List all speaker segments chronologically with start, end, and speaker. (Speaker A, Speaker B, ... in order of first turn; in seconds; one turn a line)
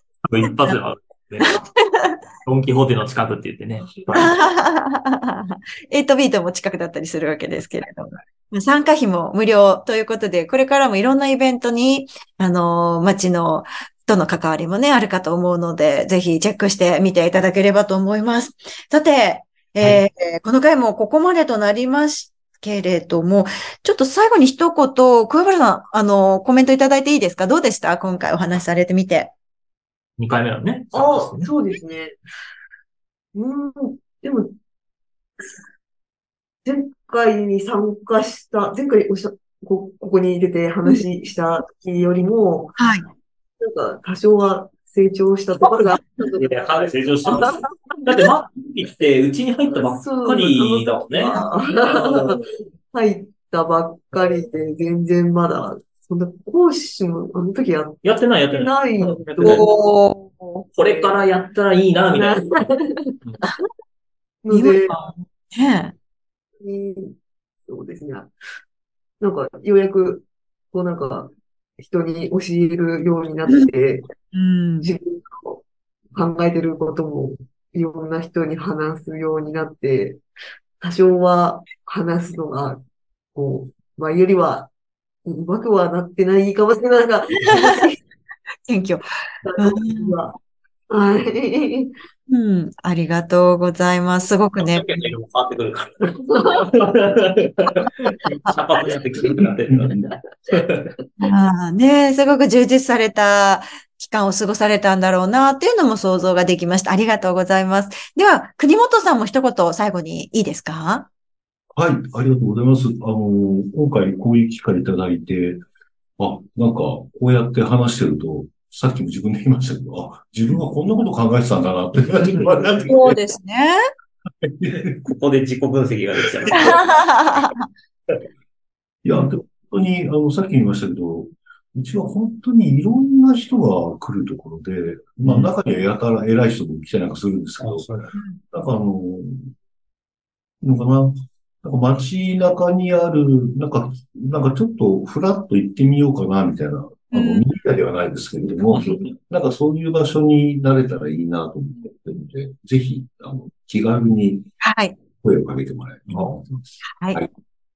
Speaker A: 0.2-1.6
Speaker B: 1.4-2.2
Speaker A: 2.5-4.3
Speaker B: 4.1-29.3
Speaker A: 30.2-31.6
Speaker C: 30.9-32.2
Speaker C: 33.3-34.5
Speaker C: 36.6-42.8
Speaker B: 42.8-43.1
Speaker C: 43.6-46.7
Speaker A: 46.2-52.4
Speaker C: 47.2-47.7
Speaker C: 49.7-59.7
Speaker A: 58.0-59.6
Speaker B: 59.4-60.7
Speaker A: 60.8-62.4
Speaker C: 60.8-61.2
Speaker C: 62.1-63.6
Speaker C: 64.4-64.9
Speaker B: 64.5-65.9
Speaker C: 66.6-67.1
Speaker C: 67.7-68.3
Speaker C: 69.2-74.1
Speaker B: 73.5-73.7
Speaker B: 74.3-74.9
Speaker C: 74.8-80.2
Speaker C: 80.8-82.8
Speaker C: 83.3-84.7
Speaker C: 85.2-88.0
Speaker B: 88.7-89.0
Speaker C: 89.5-90.3
Speaker B: 89.6-90.2
Speaker C: 90.9-91.9
Speaker B: 92.3-94.9
Speaker A: 94.6-100.9
Speaker C: 96.1-96.5
Speaker B: 101.2-111.1
Speaker D: 111.8-115.6
Speaker D: 116.2-123.2
Speaker B: 122.9-123.8
Speaker D: 124.4-125.0
Speaker A: 125.0-127.0
Speaker B: 126.6-127.7
Speaker D: 129.0-137.9
Speaker A: 135.2-135.5
Speaker A: 137.6-138.1
Speaker B: 138.1-138.4
Speaker D: 138.5-139.5
Speaker D: 140.6-154.5
Speaker B: 147.1-147.5
Speaker B: 154.6-155.0
Speaker D: 155.2-157.3
Speaker A: 156.1-156.3
Speaker B: 157.0-157.2